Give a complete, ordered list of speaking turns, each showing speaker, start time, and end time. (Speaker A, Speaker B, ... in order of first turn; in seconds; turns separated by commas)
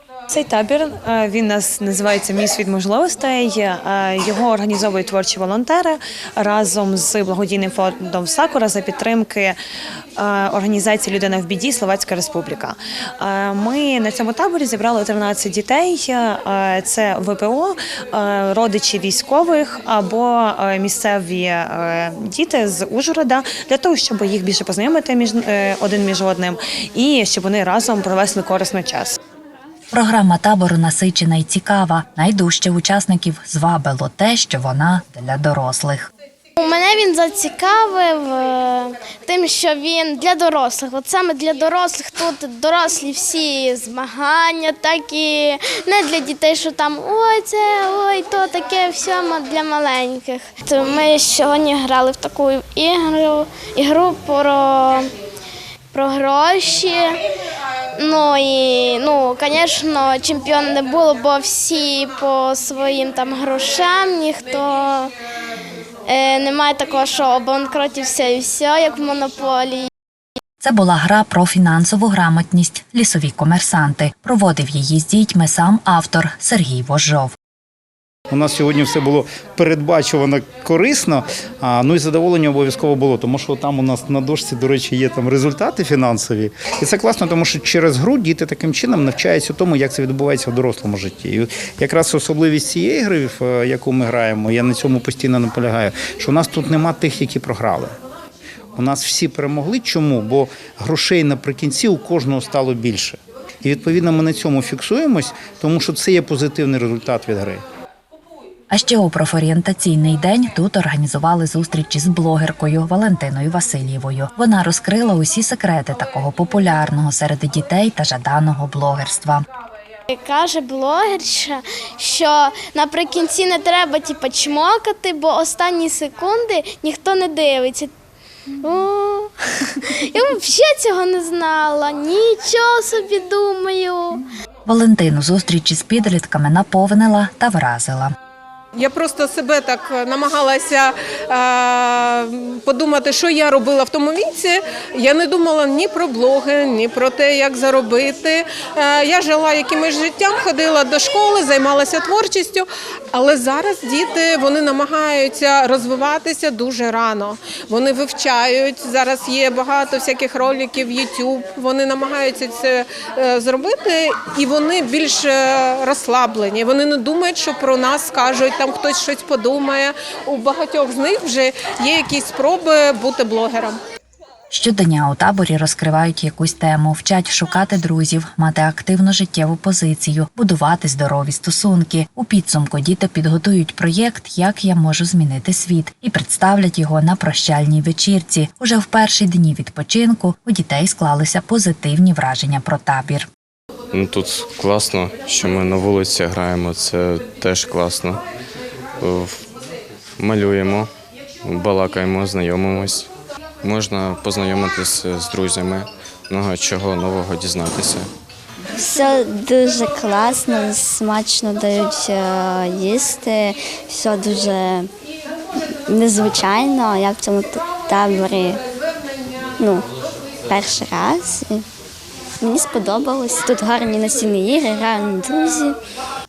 Speaker A: 0.3-9.6, Speaker A: 10.2-29.2, Speaker B: 29.9-36.1, Speaker C: 36.6-55.1, Speaker C: 55.9-57.2, Speaker C: 58.0-65.1, Speaker C: 66.1-69.9, Speaker B: 70.6-77.3, Speaker D: 78.3-97.9, Speaker D: 98.8-107.6, Speaker B: 108.7-119.4, Speaker C: 120.1-127.9, Speaker C: 128.6-134.2, Speaker B: 134.7-138.1, Speaker E: 138.8-173.8, Speaker B: 174.5-193.3, Speaker F: 193.9-198.2, Speaker F: 199.0-199.5, Speaker F: 200.2-200.9, Speaker F: 201.4-203.1, Speaker F: 203.6-208.1, Speaker G: 208.8-214.9, Speaker G: 215.9-218.6, Speaker G: 219.6-219.9, Speaker G: 220.5-221.7, Speaker G: 222.4-225.8